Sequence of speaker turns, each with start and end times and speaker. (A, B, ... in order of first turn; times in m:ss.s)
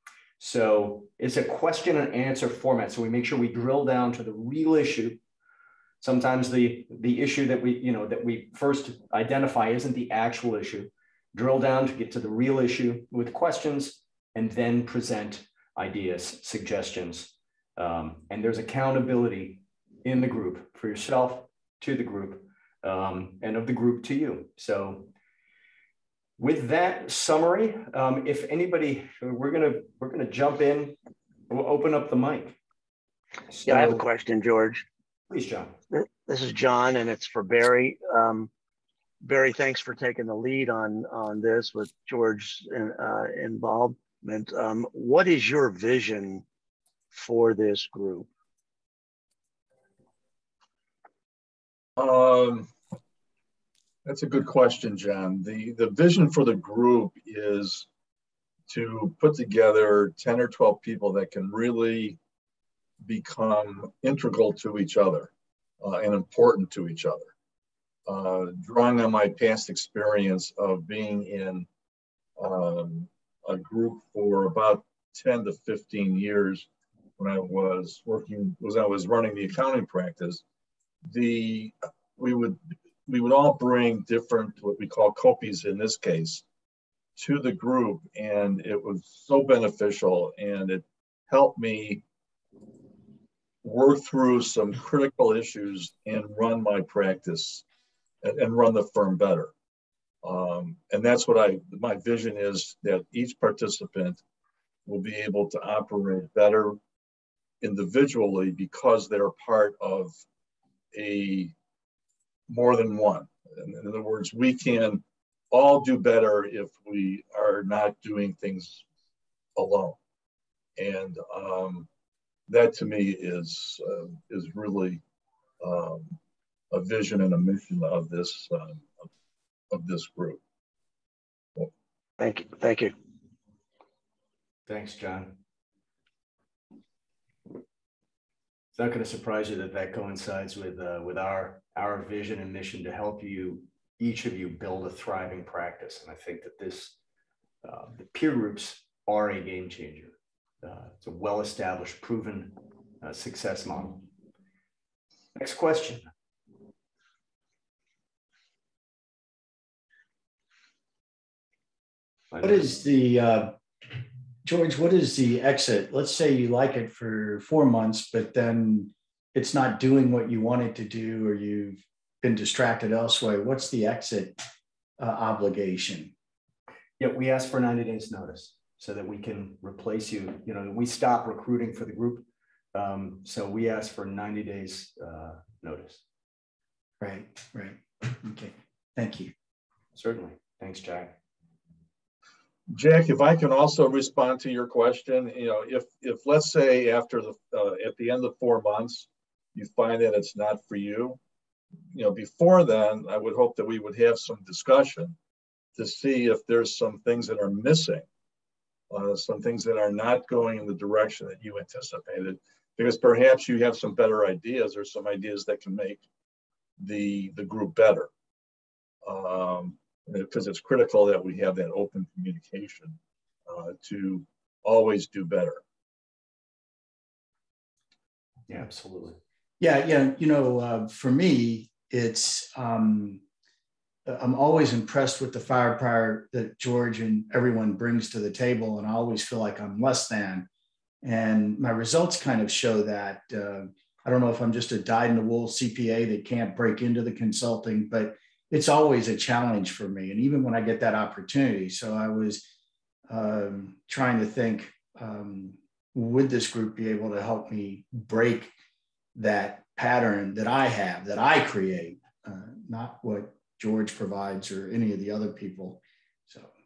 0:00.4-0:05.2 A
0:06.0-0:25.1 A
0:26.4-0:31.0 A
0:31.5-0:32.6 A
0:33.5-0:34.0 A
0:33.7-0:34.8 B
0:35.3-0:35.8 A
0:35.9-0:38.5 B
0:39.2-0:46.4 B
0:47.1-0:48.3 B
0:52.0-0:52.7 C
0:54.0-0:57.9 C
0:58.7-1:02.2 C
1:03.0-1:07.3 C
1:08.1-1:11.7 C
1:12.4-1:20.4 C
1:21.1-1:26.4 C
1:27.2-1:32.0 C
1:33.6-1:37.6 C
1:38.2-1:39.5 C
1:40.2-1:44.2 C
1:44.9-1:46.8 C
1:47.6-1:50.2 C
1:50.9-1:51.5 C
1:52.5-1:58.8 C
1:59.6-2:00.0 C
2:00.8-2:01.9 C
2:02.5-2:05.0 C
2:05.6-2:06.2 C
2:06.7-2:09.0 C
2:09.7-2:10.4 C
2:12.2-2:12.9 B
2:14.7-2:15.4 A
2:18.7-2:27.0 A
2:27.6-2:34.1 A
2:35.4-2:36.0 A
2:42.3-2:42.6 A
2:42.4-2:43.6 D
2:44.4-2:54.4 D
2:55.0-2:56.1 D
2:57.0-3:06.0 A
3:07.0-3:09.3 D
3:10.0-3:11.2 A
3:12.7-3:21.2 C
3:21.9-3:25.2 C
3:25.8-3:28.1 C
3:28.9-3:36.0 C
3:36.8-3:38.1 C
3:39.0-3:45.6 C
3:48.5-3:49.2 A
3:49.6-3:53.2 D
3:54.1-4:00.5 D
4:01.0-4:12.5 D
4:13.1-4:18.5 D
4:19.2-4:26.5 D